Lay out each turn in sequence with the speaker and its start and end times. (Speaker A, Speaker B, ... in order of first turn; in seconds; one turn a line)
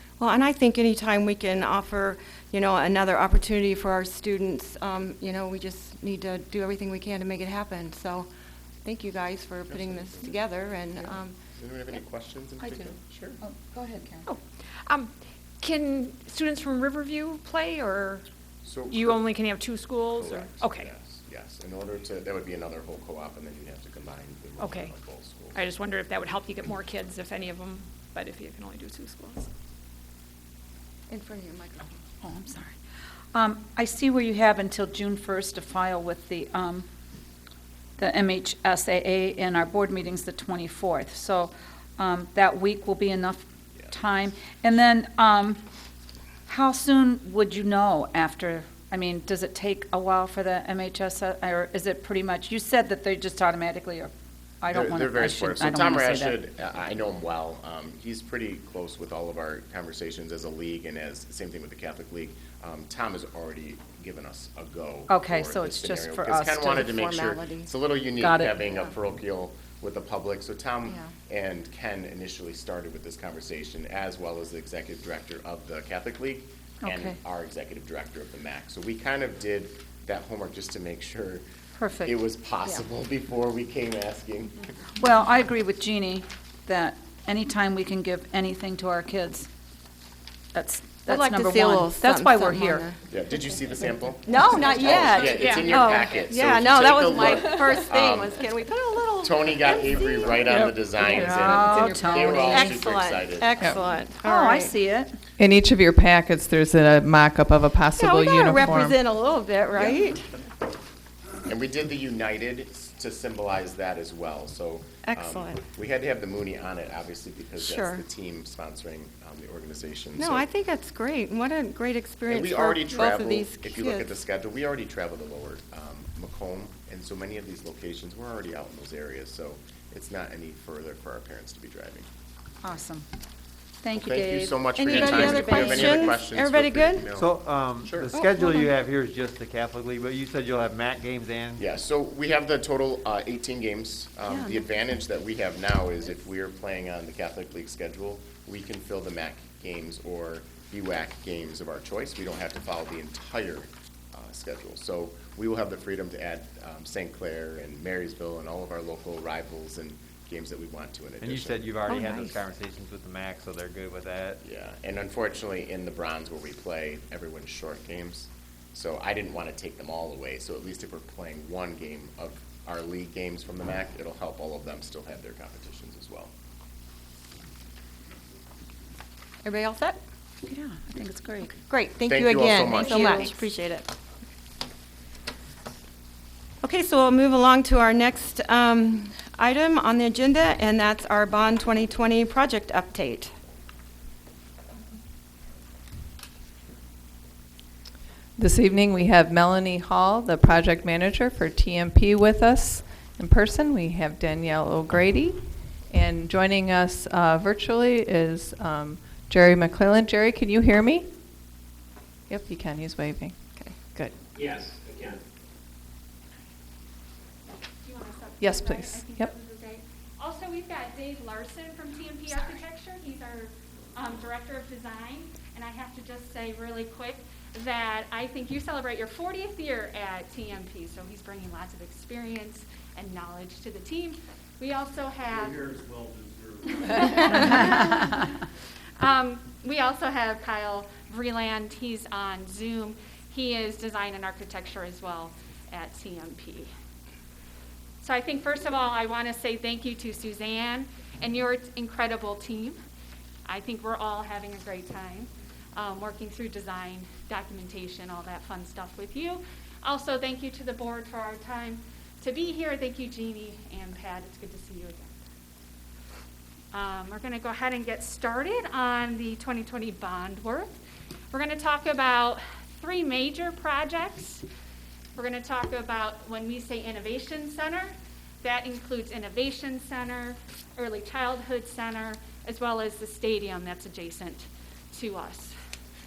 Speaker A: 0.2-8.3
Speaker A: 8.8-11.3
Speaker B: 9.7-10.4
Speaker B: 11.0-13.3
Speaker C: 12.6-14.3
Speaker D: 14.2-18.2
Speaker B: 18.6-19.2
Speaker D: 18.9-20.9
Speaker B: 20.1-25.6
Speaker D: 24.6-24.9
Speaker D: 25.5-29.5
Speaker A: 31.1-32.0
Speaker C: 32.2-32.7
Speaker C: 33.3-36.9
Speaker C: 38.0-45.6
Speaker C: 46.5-54.1
Speaker C: 54.6-56.4
Speaker B: 54.7-81.4
Speaker C: 65.1-67.0
Speaker A: 66.9-67.7
Speaker C: 68.2-68.6
Speaker A: 70.9-71.1
Speaker C: 76.8-77.2
Speaker C: 81.8-82.2
Speaker B: 82.0-84.6
Speaker C: 85.0-89.5
Speaker C: 90.5-92.9
Speaker A: 91.0-92.9
Speaker B: 93.1-98.4
Speaker A: 94.3-100.4
Speaker D: 95.2-96.0
Speaker B: 99.2-103.7
Speaker C: 100.4-102.8
Speaker A: 101.1-104.7
Speaker C: 104.2-105.1
Speaker E: 105.4-109.0
Speaker A: 107.9-110.2
Speaker B: 111.5-120.5
Speaker A: 115.0-115.6
Speaker A: 117.6-118.0
Speaker A: 120.2-124.1
Speaker B: 122.3-132.1
Speaker C: 132.6-133.1
Speaker C: 133.8-136.1
Speaker B: 134.0-138.1
Speaker A: 134.8-137.1
Speaker F: 134.9-135.3
Speaker F: 137.1-141.6
Speaker A: 138.1-138.7
Speaker B: 141.6-161.7
Speaker A: 144.3-144.6
Speaker F: 161.2-164.4
Speaker A: 161.9-162.4
Speaker B: 164.4-176.3
Speaker A: 179.4-180.0
Speaker C: 180.4-181.6
Speaker A: 181.6-183.9
Speaker B: 182.1-183.3
Speaker C: 182.7-183.4
Speaker A: 186.6-193.3
Speaker E: 198.4-211.1
Speaker E: 212.3-213.4
Speaker G: 214.3-215.2
Speaker H: 217.8-235.7
Speaker E: 218.4-219.3
Speaker G: 235.3-237.2
Speaker H: 236.8-238.1
Speaker H: 239.0-246.7
Speaker H: 248.0-252.8
Speaker H: 253.5-265.1
Speaker H: 266.7-270.7
Speaker H: 271.3-274.4
Speaker H: 275.1-285.5